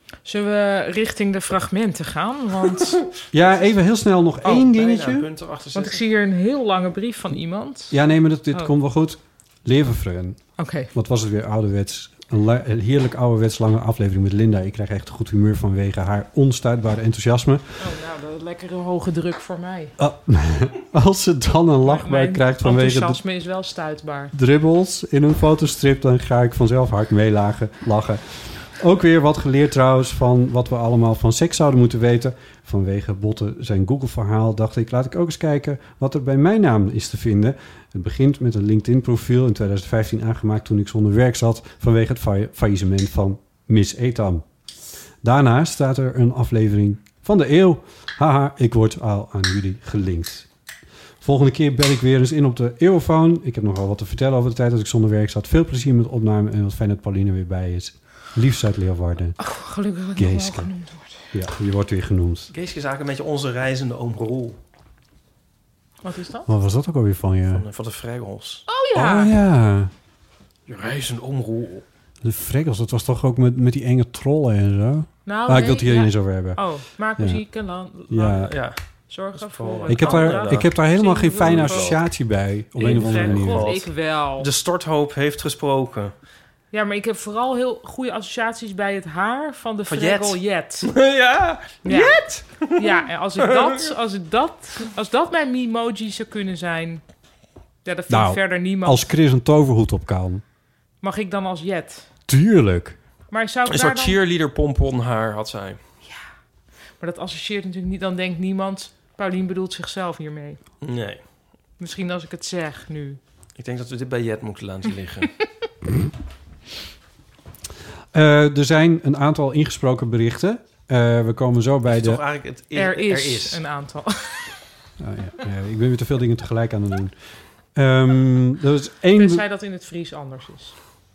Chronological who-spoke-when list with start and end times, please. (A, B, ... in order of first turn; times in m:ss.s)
0:00.2-0:03.0 A
0:03.3-0:05.3 B
0:04.4-0:06.0 C
0:05.7-0:08.0 A
0:07.9-0:17.8 B
0:10.6-0:10.9 A
0:17.8-0:19.9 A
0:20.0-0:23.2 B
0:21.8-0:24.3 A
0:24.3-0:44.4 B
0:45.2-0:50.5 B
0:51.2-0:59.4 B
0:59.4-1:01.2 A
1:00.2-1:00.7 B
1:01.3-1:02.5 B
1:02.5-1:04.6 C
1:06.0-1:06.5 A
1:06.5-1:07.6 B
1:07.5-1:08.6 C
1:08.7-1:09.3 A
1:09.0-1:09.9 B
1:10.7-1:11.8 C
1:12.2-1:17.4 B
1:15.3-1:22.1 A
1:18.1-1:18.6 B
1:18.4-1:18.8 C
1:19.3-1:20.8 C
1:19.9-1:23.7 B
1:21.4-1:22.0 C
1:22.8-1:24.5 A
1:22.9-1:26.1 C
1:26.7-1:30.9 A
1:29.9-1:32.9 C
1:31.8-1:37.0 A
1:33.5-1:33.8 C
1:37.8-1:39.1 A
1:38.1-1:40.4 B
1:41.0-1:42.1 A
1:42.3-1:43.0 B
1:43.3-1:44.2 A
1:43.7-1:45.8 C
1:47.0-1:50.6 A
1:50.8-1:51.2 C
1:51.8-1:53.2 A
1:53.6-1:55.3 C
1:58.1-2:02.2 B
2:01.9-2:03.6 C
2:02.8-2:04.5 A
2:05.0-2:07.2 B
2:07.8-2:09.4 B
2:09.2-2:10.8 A